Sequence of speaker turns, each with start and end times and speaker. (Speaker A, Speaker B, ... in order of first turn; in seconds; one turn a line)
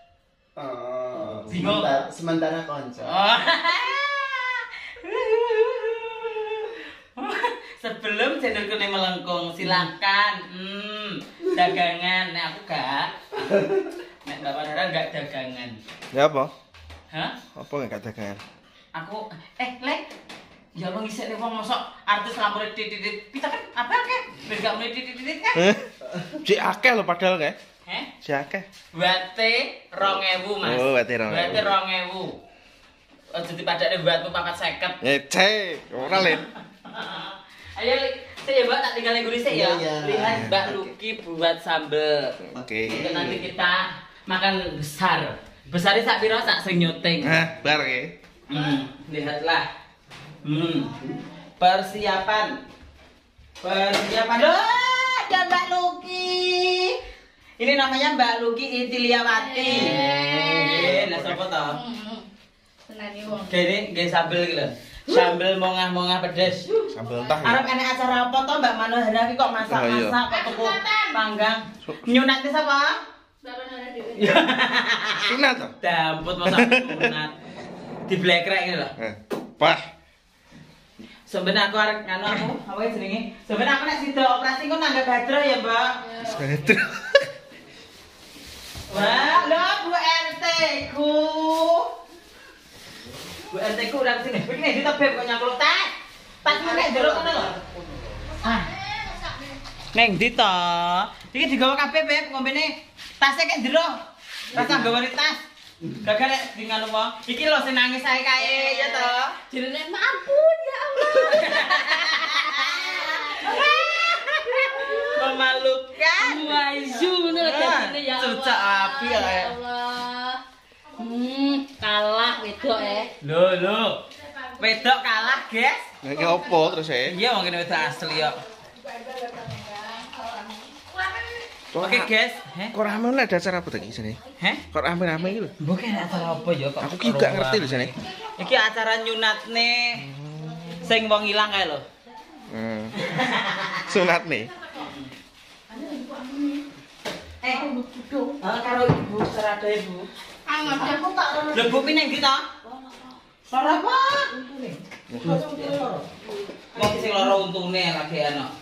Speaker A: 0.6-3.1
Speaker B: 1.5-1.9
Speaker B: 3.0-15.8
Speaker A: 9.6-9.9
Speaker C: 16.1-16.5
Speaker B: 17.1-17.4
Speaker C: 17.5-18.4
Speaker B: 18.9-20.0
Speaker B: 20.8-25.6
Speaker C: 25.5-27.6
Speaker B: 27.8-28.1
Speaker C: 28.2-28.7
Speaker B: 28.9-32.4
Speaker C: 30.6-31.7
Speaker B: 33.3-35.0
Speaker C: 35.0-36.4
Speaker B: 36.0-47.4
Speaker A: 39.5-40.4
Speaker C: 40.2-40.9
Speaker C: 42.4-43.0
Speaker A: 42.5-43.5
Speaker C: 47.2-48.1
Speaker B: 48.5-49.6
Speaker B: 50.4-50.9
Speaker B: 51.6-52.5
Speaker B: 53.6-57.0
Speaker B: 57.6-60.0
Speaker D: 59.3-61.0
Speaker C: 59.7-61.4
Speaker A: 60.4-60.7
Speaker B: 60.6-61.8
Speaker D: 61.7-62.2
Speaker D: 62.9-63.5
Speaker B: 63.5-66.7
Speaker D: 66.8-67.2
Speaker C: 66.9-67.7
Speaker B: 67.4-73.0
Speaker C: 69.7-70.2
Speaker D: 70.3-71.1
Speaker D: 73.4-74.5
Speaker B: 74.2-77.3
Speaker C: 75.2-75.7
Speaker C: 76.5-77.1
Speaker B: 78.0-78.9
Speaker C: 79.0-79.8
Speaker B: 81.3-86.2
Speaker C: 86.2-87.3
Speaker B: 88.9-91.9
Speaker A: 88.9-89.3
Speaker B: 93.5-95.9
Speaker B: 96.4-97.5
Speaker A: 96.5-98.3
Speaker B: 98.4-98.7
Speaker D: 98.5-99.5
Speaker B: 99.9-103.9
Speaker B: 104.5-105.4
Speaker A: 104.5-104.9
Speaker B: 106.0-109.4
Speaker D: 108.4-115.2
Speaker B: 111.0-119.5
Speaker D: 116.2-120.4
Speaker D: 120.9-123.1
Speaker B: 123.2-124.0
Speaker B: 124.5-125.8
Speaker C: 126.0-127.1
Speaker D: 126.1-126.7
Speaker B: 127.0-128.4
Speaker D: 128.8-131.4
Speaker C: 131.7-132.1
Speaker B: 131.8-132.8
Speaker C: 132.7-134.2
Speaker B: 134.4-134.6
Speaker C: 134.7-135.5
Speaker B: 135.6-140.0
Speaker C: 136.8-137.9
Speaker C: 140.0-140.8
Speaker B: 140.8-141.8
Speaker C: 142.5-142.9
Speaker B: 142.9-144.0
Speaker C: 143.8-144.5
Speaker B: 144.7-145.1
Speaker D: 145.7-146.6
Speaker B: 147.4-147.7
Speaker D: 147.5-148.4
Speaker B: 148.4-150.1
Speaker D: 150.4-151.9
Speaker B: 150.6-152.4
Speaker D: 152.6-153.2
Speaker B: 153.5-154.3
Speaker D: 154.3-157.3
Speaker C: 155.1-155.5
Speaker B: 155.2-156.0
Speaker B: 156.7-158.5